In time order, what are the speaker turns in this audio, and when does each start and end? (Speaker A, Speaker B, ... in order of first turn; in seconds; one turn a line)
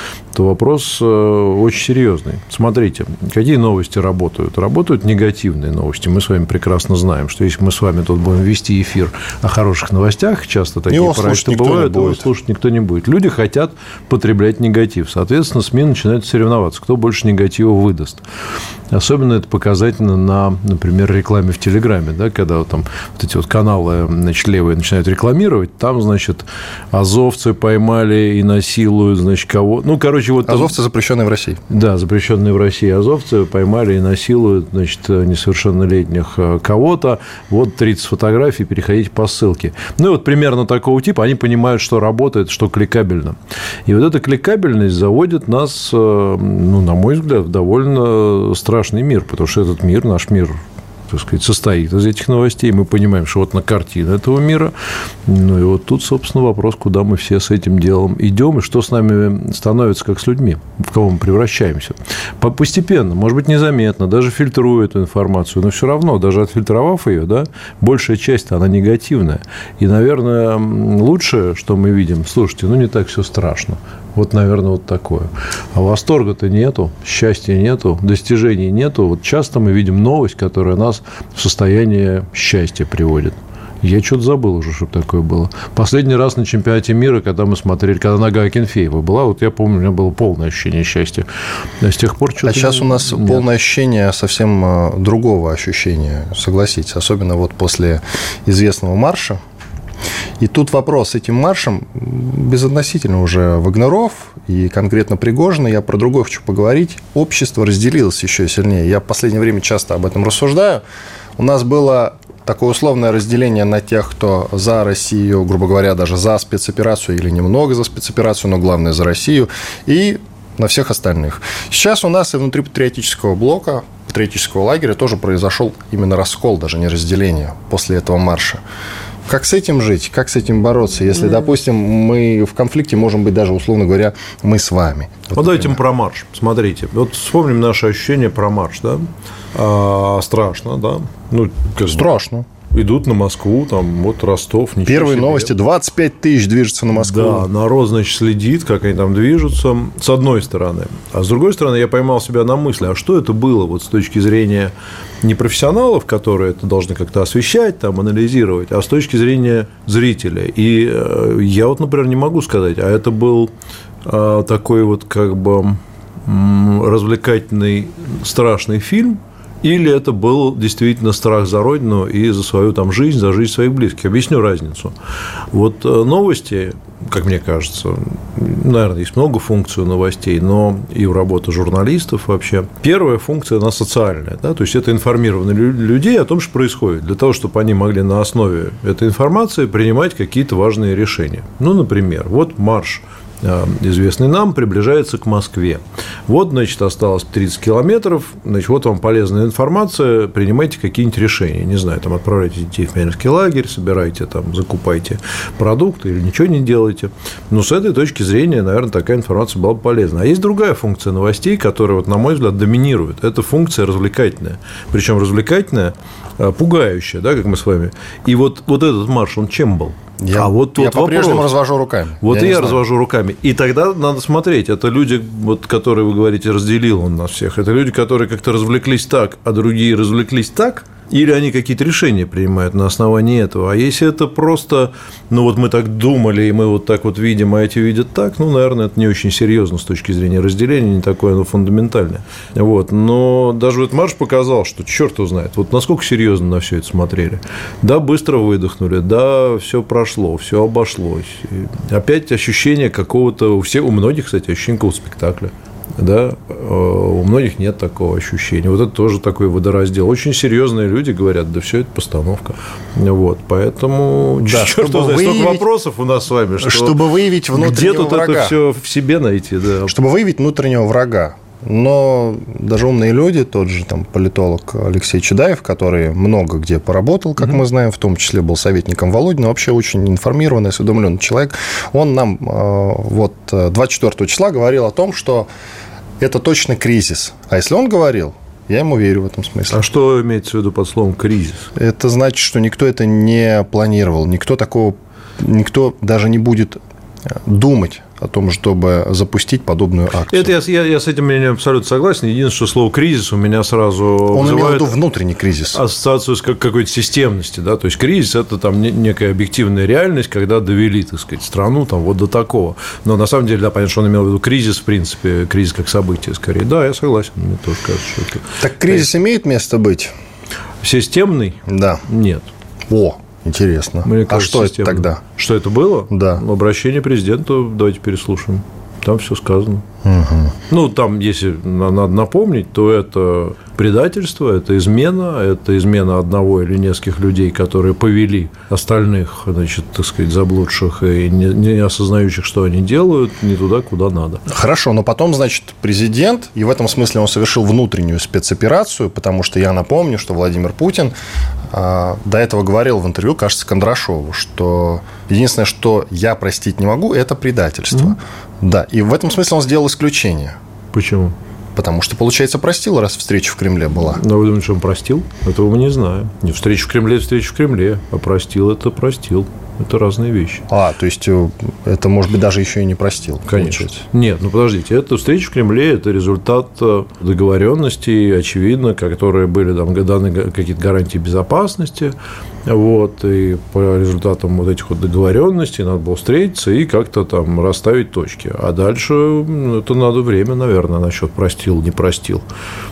Speaker A: 0.3-18.2
Speaker B: 10.9-12.3
Speaker A: 18.9-30.8
Speaker B: 30.4-31.6
Speaker A: 31.7-50.6
Speaker A: 51.1-54.7
Speaker A: 55.3-91.3
Speaker A: 91.8-93.5
Speaker B: 92.5-99.4
Speaker B: 100.4-110.8
Speaker B: 111.4-128.6
Speaker B: 129.3-135.8
Speaker A: 135.3-142.1
Speaker B: 141.9-142.5
Speaker A: 142.7-145.5
Speaker B: 144.9-147.5
Speaker A: 146.9-154.7
Speaker A: 155.2-163.5
Speaker A: 164.0-174.9
Speaker A: 175.5-221.6
Speaker B: 220.2-222.8
Speaker A: 222.2-269.9
Speaker B: 264.4-265.7
Speaker B: 266.6-268.6
Speaker B: 269.9-285.5
Speaker B: 286.2-289.8
Speaker A: 289.7-291.7
Speaker B: 291.8-296.8
Speaker B: 297.3-300.5
Speaker A: 300.3-305.0
Speaker B: 304.3-305.8
Speaker A: 305.7-319.1
Speaker B: 318.6-320.1
Speaker A: 320.8-322.5
Speaker B: 321.7-322.1
Speaker B: 322.9-325.2
Speaker A: 324.1-329.9
Speaker B: 326.1-326.4
Speaker B: 330.0-330.6
Speaker A: 330.7-344.4
Speaker B: 344.5-351.1
Speaker B: 351.7-360.6
Speaker A: 360.9-361.4
Speaker B: 361.8-364.2
Speaker A: 364.1-370.6
Speaker B: 370.7-374.0
Speaker A: 373.5-382.1
Speaker A: 382.7-392.4